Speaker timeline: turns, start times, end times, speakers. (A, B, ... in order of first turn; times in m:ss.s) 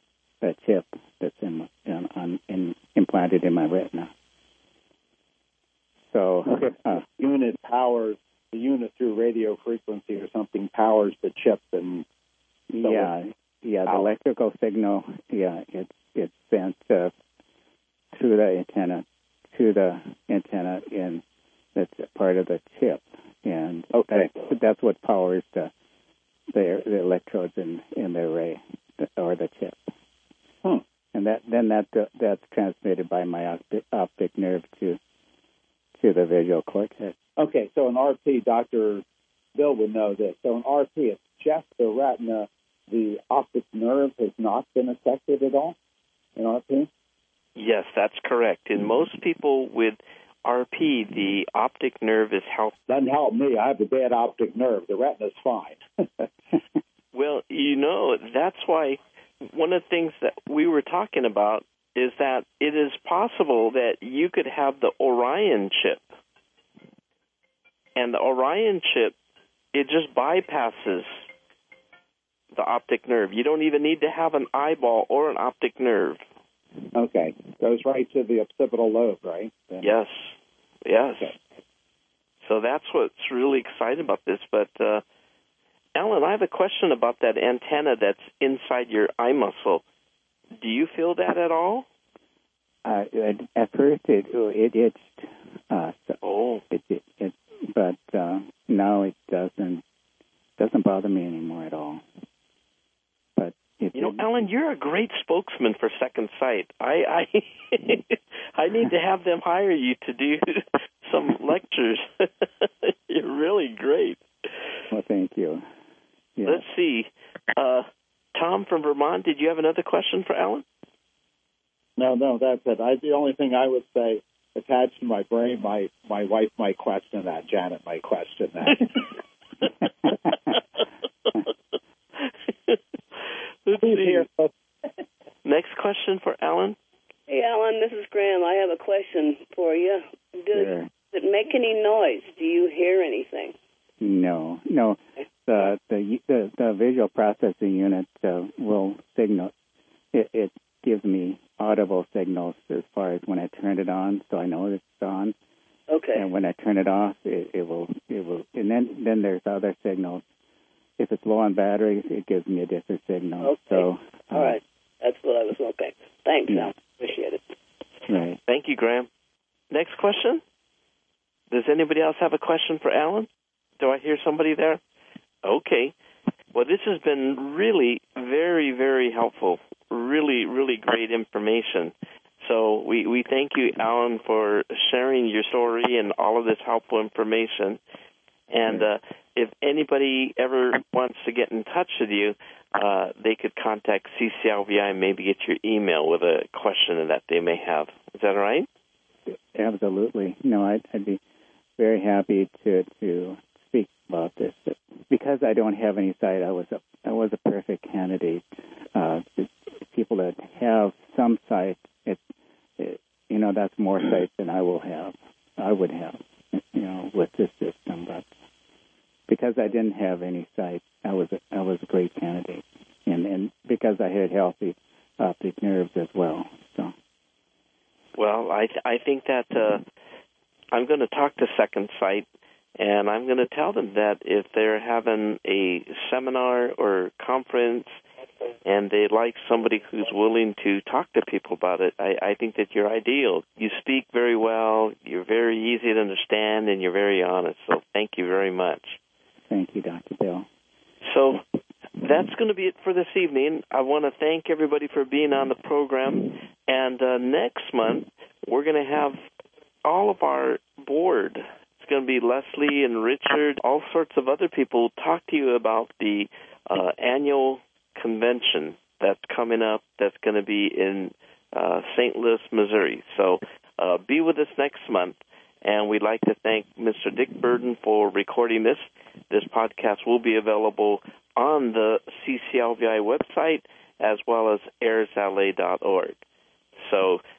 0:00.4-0:04.1 A
0:06.1-0:07.0 A
0:06.6-0:12.0 B
0:12.7-0:17.1 A
0:12.8-0:13.1 B
0:13.9-0:14.1 B
0:18.1-0:21.2 A
0:21.8-0:25.7 A
0:23.9-0:24.4 B
0:26.5-0:29.9 A
0:31.1-0:35.0 A
0:36.0-0:37.2 A
0:37.4-0:39.0 B
0:39.6-0:45.8 B
0:46.4-0:46.9 B
0:47.6-0:52.8 C
0:52.9-0:56.3 B
0:57.1-1:06.1 C
1:08.0-1:09.2 C
1:09.7-1:11.3 C
1:12.5-1:16.2 C
1:16.9-1:19.8 B
1:19.8-1:21.3 C
1:22.4-1:25.0 C
1:26.0-1:29.8 C
1:30.6-1:31.8 C
1:32.8-1:39.8 A
1:36.2-1:36.6 C
1:40.6-1:42.0 A
1:43.4-1:44.2 A
1:43.9-1:54.2 C
1:54.9-1:55.6 A
1:56.4-1:56.6 A
1:56.4-2:00.6 C
2:02.0-2:09.2 B
2:10.3-2:10.6 C
2:12.2-2:12.8 C
2:13.6-2:14.3 C
2:13.8-2:14.5 B
2:15.4-2:16.8 C
2:17.3-2:23.6 D
2:20.5-2:20.9 A
2:24.0-2:29.5 A
2:30.1-2:35.4 A
2:35.9-2:36.3 D
2:36.1-2:40.2 A
2:41.0-2:44.6 A
2:43.4-2:47.4 D
2:46.5-2:46.8 A
2:48.1-2:48.4 A
2:48.5-2:49.1 C
2:49.7-2:50.4 C
2:51.5-2:54.8 C
2:55.4-2:55.9 C
2:56.5-3:07.8 C
3:08.5-3:18.7 C
3:19.3-3:21.2 A
3:21.8-3:32.2 A
3:32.8-3:38.3 A
3:39.3-3:46.9 A
3:48.2-3:49.8 C
3:50.7-3:52.3 C
3:52.8-3:58.0 C
3:58.6-4:09.0 C
4:09.5-4:10.5 A
4:11.0-4:11.4 C
4:12.0-4:19.2 C
4:19.8-4:46.2 C
4:46.8-4:47.2 C